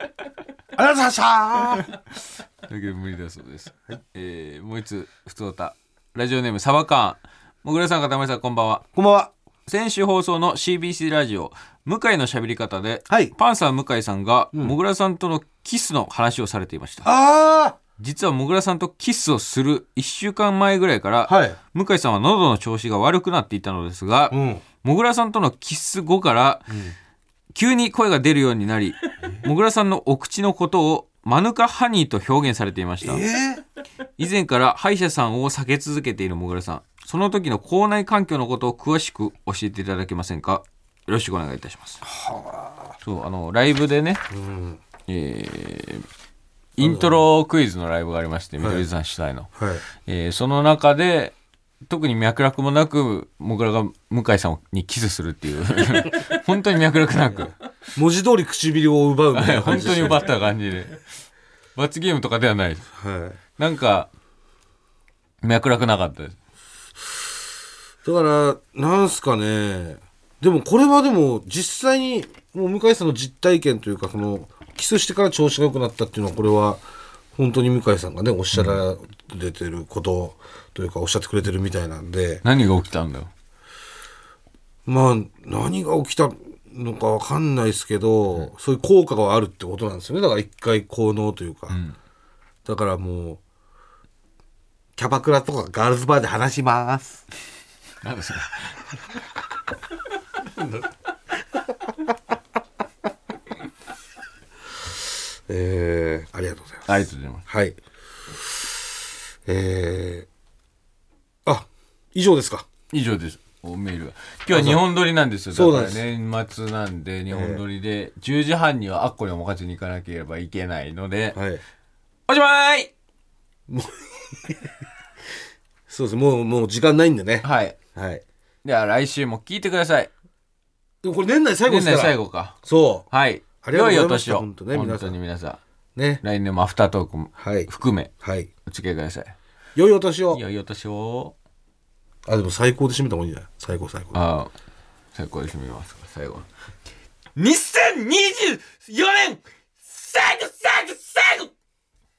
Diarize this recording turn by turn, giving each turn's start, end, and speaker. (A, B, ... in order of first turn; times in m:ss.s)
0:00.8-0:01.9 A
0:02.7-0:08.9 B
0:09.0-0:09.3 A
0:09.7-0:17.1 B
0:13.1-0:13.3 A
0:17.0-0:17.8 A
0:18.0-0:26.8 B
0:21.3-0:21.6 A
0:24.3-0:24.6 A
0:26.7-0:27.0 A
0:27.5-0:33.3 B
0:33.0-0:33.6 A
0:34.2-0:42.0 B
0:42.0-0:43.0 A
0:43.0-0:44.2 B
0:44.3-0:44.8 A
0:45.1-0:46.0 B
0:46.8-0:49.5 B
0:46.8-0:47.3 A
0:48.6-0:48.9 A
0:49.6-0:49.8 A
0:50.0-0:51.4 B
0:51.9-0:57.6 B
0:58.0-1:00.3 A
0:59.3-1:01.0 B
1:01.8-1:02.9 B
1:03.0-1:03.4 A
1:03.6-1:04.1 B
1:05.4-1:06.4 B
1:08.0-1:16.8 A
1:17.4-1:22.4 A
1:18.5-1:18.8 B
1:22.4-1:23.3 B
1:24.9-1:31.8 A
1:31.7-1:32.0 B
1:32.6-1:33.4 A
1:35.0-1:37.2 A
1:38.0-1:39.0 B
1:45.5-1:47.8 A
1:46.9-1:47.4 B
1:49.5-1:50.3 A
1:51.5-1:52.7 A
1:52.9-2:01.4 B
1:54.5-1:54.9 A
1:55.5-1:56.1 A
1:57.3-1:57.6 A
2:01.3-2:01.6 A
2:02.3-2:02.9 B
2:03.7-2:04.6 A
2:05.9-2:08.2 A
2:07.4-2:07.8 B
2:08.6-2:10.1 B
2:11.0-2:13.1 A
2:11.6-2:12.6 B
2:13.1-2:15.6 B
2:13.6-2:15.2 A
2:16.0-2:16.2 A
2:16.2-2:18.1 B
2:17.4-2:17.7 A
2:18.2-2:18.5 A
2:18.7-2:19.4 B
2:19.8-2:20.4 A
2:20.3-2:21.4 B
2:22.3-2:24.2 A
2:24.1-2:24.5 B
2:25.1-2:26.5 B
2:27.4-2:31.5 B